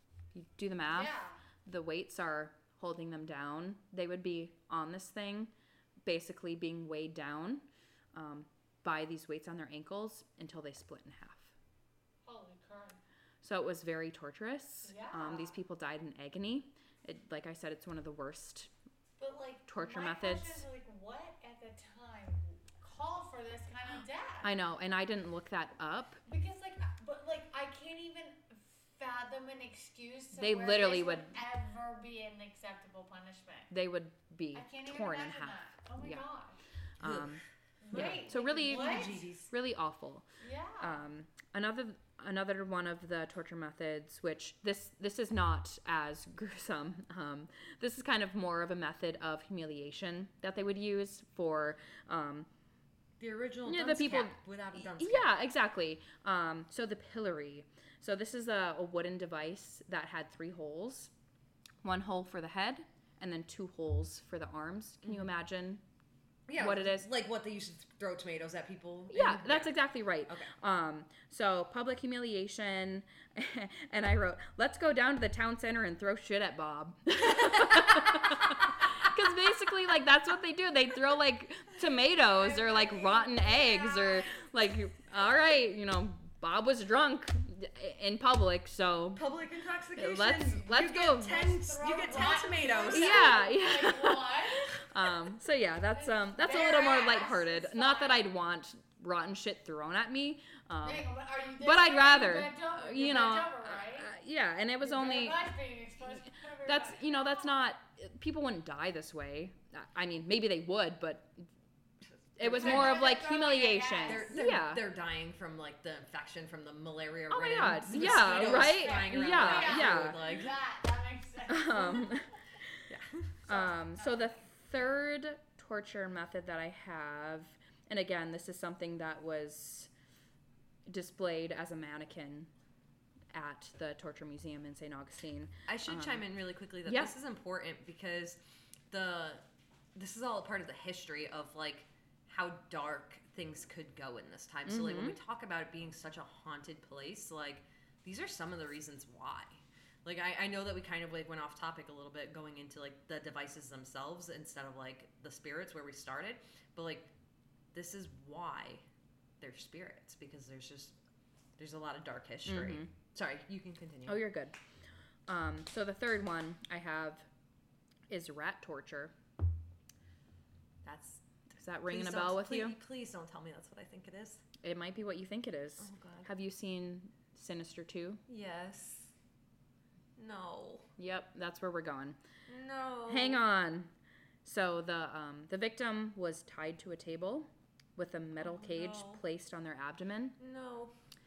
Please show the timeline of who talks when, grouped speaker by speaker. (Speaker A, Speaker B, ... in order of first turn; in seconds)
Speaker A: 0.3-1.1, 1.6-5.5, 6.0-11.5, 13.4-18.7, 19.7-20.6, 24.4-26.2, 30.3-31.3, 33.7-36.2, 37.0-40.3, 40.8-52.5, 53.7-61.1, 61.8-65.8, 66.5-67.1, 69.1-89.2, 90.0-91.5, 92.9-101.1, 101.6-105.5, 106.2-111.5, 112.4-114.8, 117.3-120.2, 121.5-122.8, 123.5-129.9, 130.9-132.5, 133.3-136.3, 136.8-137.1, 144.7-145.2, 162.4-162.9, 164.1-164.6, 165.3-167.3, 168.1-169.1, 170.8-172.8, 174.6-178.2, 181.0-182.2, 183.1-183.9, 184.4-190.4
Speaker B: 0.9-1.4, 12.2-13.0, 14.8-15.6, 19.2-24.5, 26.3-33.7, 34.5-36.6, 37.8-39.3, 40.4-41.0, 82.3-84.3, 91.2-94.8, 96.0-98.2, 100.8-104.1, 104.8-107.7, 112.5-114.3, 118.0-122.3, 123.5-124.3
Speaker C: 37.0-37.3, 37.9-39.5, 53.2-55.3, 66.5-69.8, 77.6-78.3, 89.1-93.4, 112.4-113.1, 114.1-120.6, 122.9-123.3, 135.7-139.4, 139.9-157.1, 157.7-158.8, 159.4-161.0, 161.6-164.2, 171.9-174.4, 175.8-176.3, 178.3-179.1, 180.2-180.9, 182.5-183.4, 188.4-189.2, 190.4-190.9